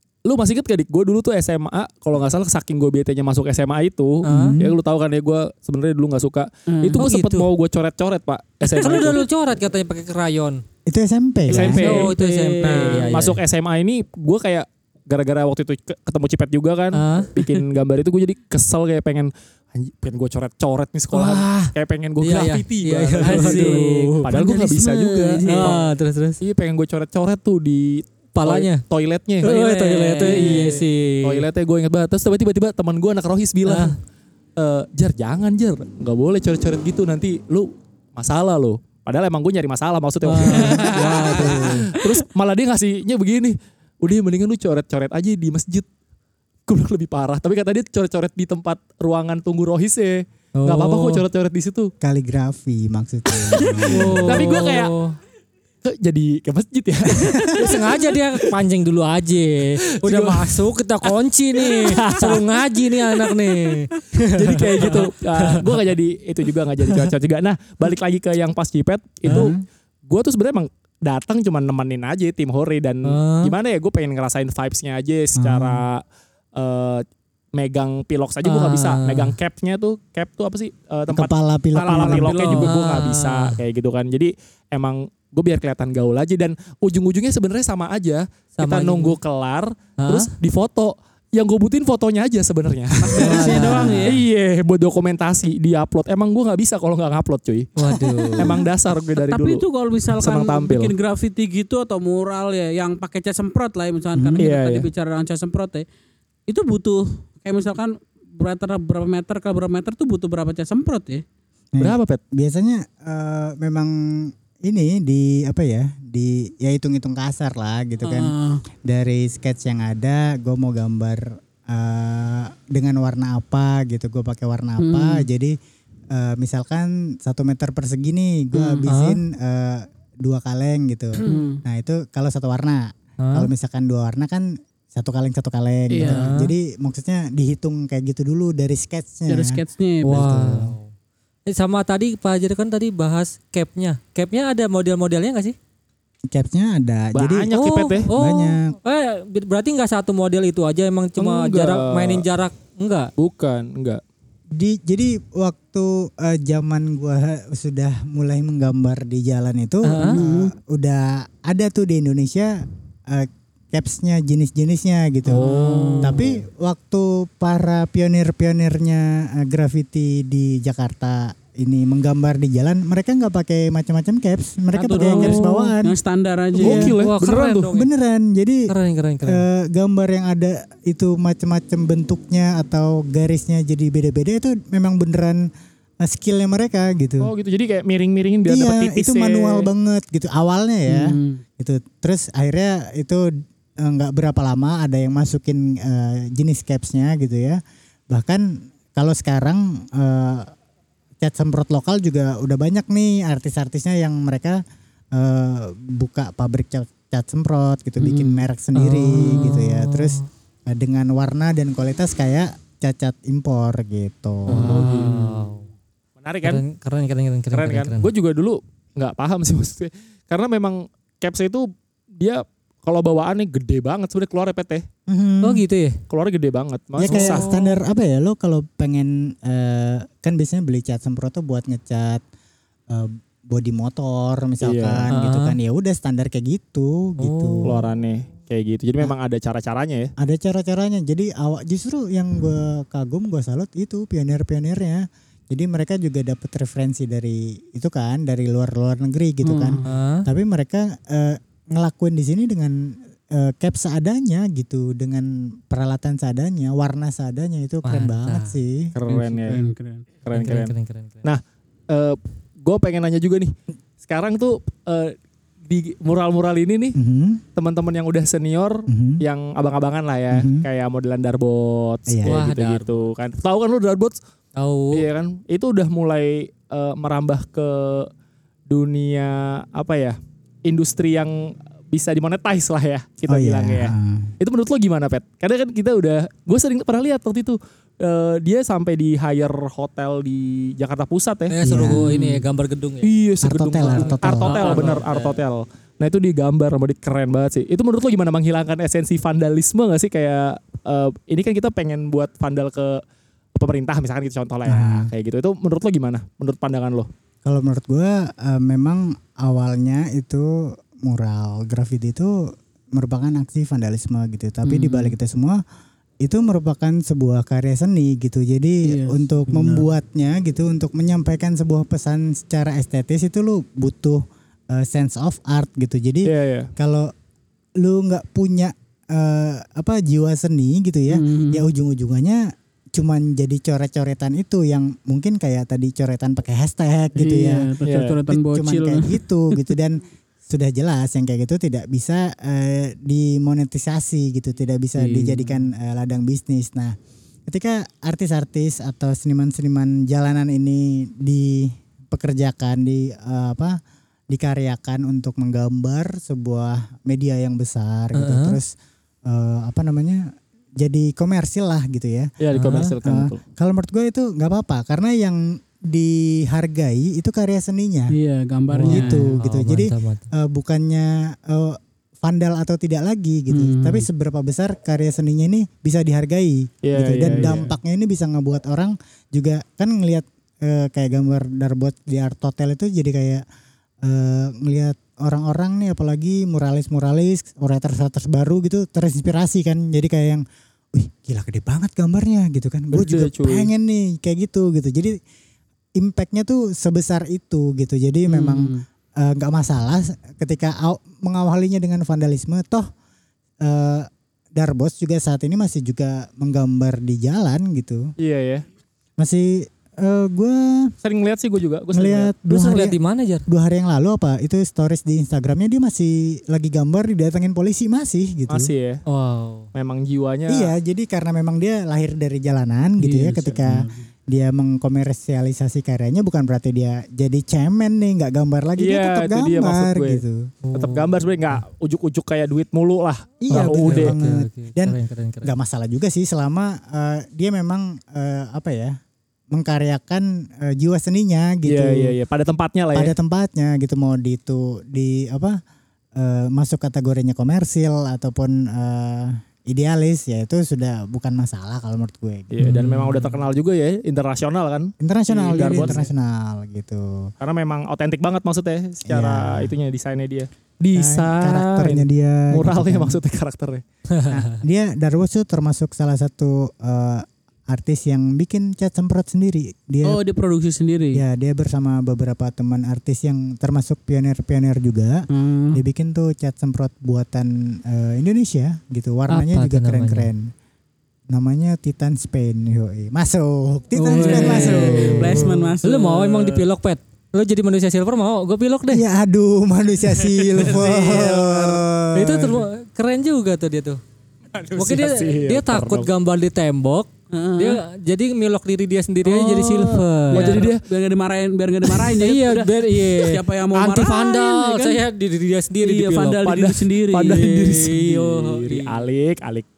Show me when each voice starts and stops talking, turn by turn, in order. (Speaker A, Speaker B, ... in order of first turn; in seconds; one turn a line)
Speaker A: 0.3-9.2
Speaker B: 4.2-4.6
Speaker C: 4.3-4.8
Speaker D: 6.7-7.0
Speaker B: 7.0-7.5
Speaker D: 8.7-9.2
Speaker B: 8.7-10.6
Speaker C: 10.9-12.0
Speaker A: 11.5-25.9
Speaker B: 11.5-13.4
Speaker D: 11.8-13.2
Speaker B: 16.9-17.6
Speaker B: 21.1-24.3
Speaker D: 23.2-25.9
Speaker B: 25.5-26.4
Speaker A: 26.4-29.6
Speaker B: 28.4-28.8
Speaker D: 29.4-30.8
Speaker B: 29.4-31.4
Speaker A: 30.2-34.0
Speaker B: 33.6-34.0
Speaker A: 34.6-45.9
Speaker B: 40.2-42.0
Speaker D: 40.5-42.1
Speaker A: 46.7-51.9
Speaker B: 50.6-51.2
Speaker C: 52.0-54.5
Speaker A: 53.6-54.9
Speaker B: 53.9-55.2
Speaker A: 55.8-58.6
Speaker C: 57.3-57.6
Speaker B: 57.5-65.8
Speaker A: 59.9-62.5
Speaker A: 64.3-69.5
Speaker C: 69.3-69.6
Speaker B: 69.3-69.5
Speaker A: 70.1-76.0
Speaker B: 73.0-73.5
Speaker C: 75.4-75.8
Speaker A: 76.6-81.3
Speaker B: 78.5-79.3
Speaker C: 81.1-82.3
Speaker D: 81.7-82.7
Speaker A: 81.8-97.7
Speaker B: 82.4-83.6
Speaker B: 88.6-89.2
Speaker B: 90.0-90.3
Speaker D: 93.0-94.2
Speaker B: 93.2-94.2
Speaker B: 97.8-98.6
Speaker D: 98.2-98.5
Speaker A: 98.4-100.9
Speaker D: 99.3-105.8
Speaker C: 104.2-104.5
Speaker A: 104.4-104.9
Speaker D: 106.5-111.2
Speaker C: 111.7-125.5
Speaker A: 111.8-112.2
Speaker D: 118.0-118.6
Speaker D: 124.8-125.3
Speaker C: 126.1-140.8
Speaker D: 128.5-128.8
Speaker B: 128.9-129.2
Speaker D: 131.2-131.6
Speaker B: 133.2-133.5
Speaker D: 135.9-136.3
Speaker B: 136.0-136.5
Speaker D: 139.3-140.3
Speaker B: 140.0-140.9
Speaker B: 141.5-145.6
Speaker C: 146.3-147.6
Speaker A: 147.1-148.1
Speaker B: 147.5-153.1
Speaker C: 148.1-148.8
Speaker A: 151.2-152.2
Speaker A: 153.2-154.0
Speaker C: 154.5-165.5
Speaker B: 159.8-160.2
Speaker D: 160.0-160.5
Speaker D: 165.3-166.3
Speaker B: 165.3-166.3
Speaker C: 166.0-175.9
Speaker D: 174.7-176.9
Speaker B: 174.9-175.8
Speaker A: 176.6-177.7
Speaker C: 176.6-176.9
Speaker B: 176.9-177.9
Speaker C: 177.7-178.7
Speaker B: 178.7-179.4
Speaker C: 179.2-185.5
Speaker C: 186.0-187.3
Speaker A: 187.2-189.7
Speaker C: 188.5-193.3
Speaker D: 190.9-191.4
Speaker C: 193.8-197.6
Speaker C: 198.1-200.5
Speaker C: 201.2-204.6
Speaker C: 205.1-214.9
Speaker B: 208.0-210.3
Speaker B: 214.5-215.7
Speaker A: 214.5-215.2
Speaker A: 216.2-216.6
Speaker B: 216.4-218.1
Speaker A: 217.5-224.8
Speaker C: 225.1-225.6
Speaker B: 225.4-226.0
Speaker A: 226.1-227.6
Speaker C: 227.0-232.2
Speaker B: 227.1-227.7
Speaker C: 232.9-237.8
Speaker A: 234.6-235.1
Speaker B: 235.1-235.6
Speaker B: 237.2-237.9
Speaker A: 237.7-240.1
Speaker C: 240.2-258.9
Speaker D: 249.4-249.8
Speaker B: 249.8-250.3
Speaker B: 257.9-258.5
Speaker A: 258.9-259.6
Speaker D: 259.1-260.1
Speaker A: 260.3-260.7
Speaker B: 260.3-261.2
Speaker A: 261.2-265.1
Speaker A: 265.7-267.0
Speaker C: 266.9-267.4
Speaker A: 267.6-274.2
Speaker C: 268.9-269.2
Speaker C: 270.3-270.7
Speaker C: 272.1-272.4
Speaker B: 272.2-273.1
Speaker B: 274.6-275.0
Speaker A: 274.9-278.1
Speaker A: 278.7-291.9
Speaker C: 283.3-284.3
Speaker B: 291.5-293.1
Speaker C: 291.6-292.1
Speaker D: 292.1-292.4
Speaker A: 293.0-303.0
Speaker C: 293.4-294.9
Speaker B: 293.8-295.4
Speaker A: 303.6-307.1
Speaker C: 304.7-305.1
Speaker C: 307.4-312.4
Speaker C: 312.9-315.6
Speaker D: 314.6-315.1
Speaker C: 316.2-327.1
Speaker D: 318.8-319.9
Speaker A: 326.2-326.7
Speaker C: 327.8-337.7
Speaker D: 331.1-331.6
Speaker D: 337.2-339.6
Speaker A: 337.9-338.2
Speaker C: 338.3-347.0
Speaker D: 345.0-345.6
Speaker C: 347.5-353.8
Speaker C: 354.3-358.7
Speaker B: 358.1-358.6
Speaker C: 359.3-368.1
Speaker A: 362.4-363.4
Speaker B: 362.5-362.9
Speaker D: 368.1-369.2
Speaker B: 368.7-370.3
Speaker C: 368.9-383.4
Speaker D: 373.5-374.1
Speaker A: 376.8-377.7
Speaker C: 384.0-395.2
Speaker A: 392.9-393.7
Speaker C: 396.0-402.9
Speaker D: 398.3-398.8
Speaker C: 403.6-408.1
Speaker A: 408.2-408.6
Speaker C: 409.2-410.9
Speaker A: 411.0-412.3
Speaker C: 411.9-418.7
Speaker B: 412.5-413.5
Speaker A: 418.5-419.0
Speaker B: 419.1-419.7
Speaker A: 419.8-420.7
Speaker C: 420.5-430.5
Speaker D: 423.0-424.1
Speaker A: 428.8-430.2
Speaker B: 430.6-431.6
Speaker A: 430.7-434.2
Speaker C: 433.4-439.0
Speaker B: 433.5-435.5
Speaker C: 439.5-442.1
Speaker A: 441.6-443.1
Speaker C: 442.9-445.6
Speaker C: 446.2-453.2
Speaker A: 452.5-456.1
Speaker B: 452.6-453.3
Speaker C: 455.0-457.3
Speaker A: 457.4-463.8
Speaker C: 459.1-459.7
Speaker C: 460.9-463.2
Speaker B: 464.1-464.4
Speaker C: 464.3-470.2
Speaker D: 470.0-471.2
Speaker C: 471.1-480.5
Speaker D: 475.3-475.8
Speaker B: 479.3-480.3
Speaker C: 481.3-485.6
Speaker B: 483.9-489.0
Speaker D: 484.1-486.7
Speaker C: 488.9-492.6
Speaker D: 490.6-491.8
Speaker B: 492.1-494.0
Speaker A: 494.5-496.1
Speaker B: 494.8-500.7
Speaker D: 497.3-497.8
Speaker D: 499.2-505.0
Speaker A: 500.3-500.8
Speaker B: 501.9-506.5
Speaker D: 505.8-507.8
Speaker A: 506.5-509.7
Speaker B: 507.4-509.0